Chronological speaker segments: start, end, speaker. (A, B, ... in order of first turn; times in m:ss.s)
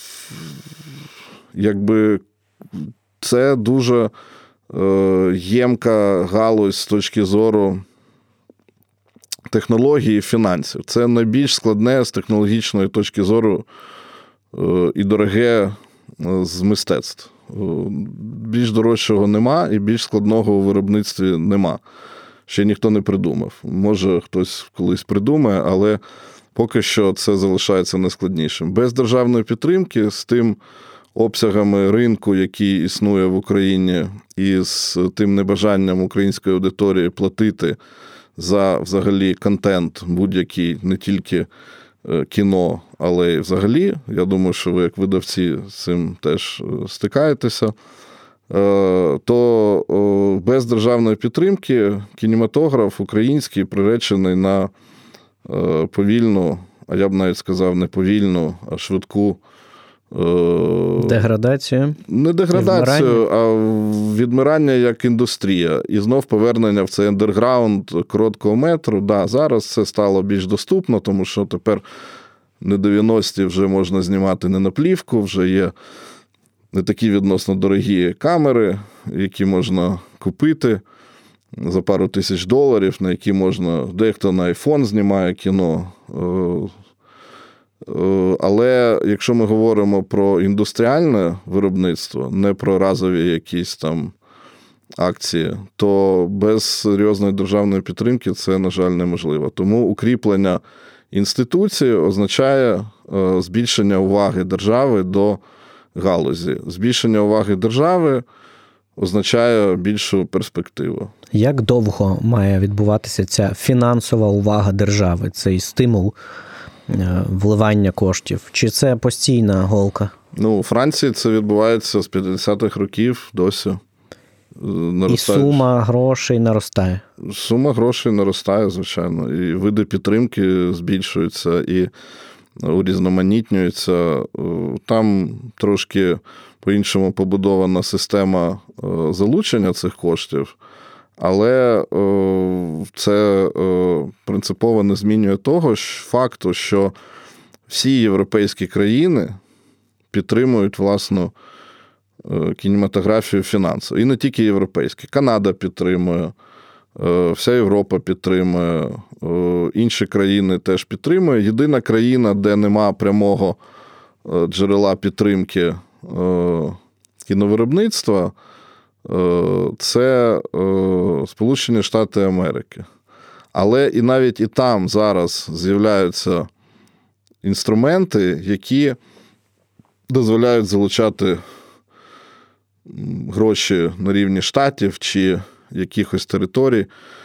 0:01.5-0:02.2 A
0:02.8-0:04.1 A
0:04.7-0:07.8 A
0:09.5-0:13.7 A
0:14.5-0:21.8 A
0:22.5-0:26.0 A
0:26.6-0:30.6 A
0:31.2-0:37.8 A
0:38.4-0:41.5 A
0:42.0-0:47.7 A
0:48.5-0:54.7 A
0:55.4-0:59.4 A
1:00.1-1:01.2 A
1:01.0-1:02.0 B
1:02.1-1:11.8 A
1:02.5-1:03.2 B
1:12.6-1:15.7 A
1:16.7-1:20.8 A
1:21.6-1:26.7 A
1:27.8-1:34.1 A
1:35.0-1:40.6 A
1:41.1-1:45.4 A
1:46.0-1:48.2 A
1:49.0-1:51.1 A
1:51.3-1:56.2 B
1:56.9-2:00.1 B
2:00.4-2:03.8 A
2:04.6-2:05.7 A
2:05.1-2:07.0 B
2:07.2-2:11.9 A
2:12.6-2:20.6 A
2:21.2-2:26.9 A
2:27.7-2:29.4 A
2:30.1-2:31.3 A
2:32.2-2:36.3 A
2:37.0-2:43.6 A
2:44.2-2:48.3 A
2:49.0-2:52.9 A
2:53.5-2:56.5 A
2:57.4-2:59.0 A
3:00.1-3:01.4 A
3:02.9-3:06.9 A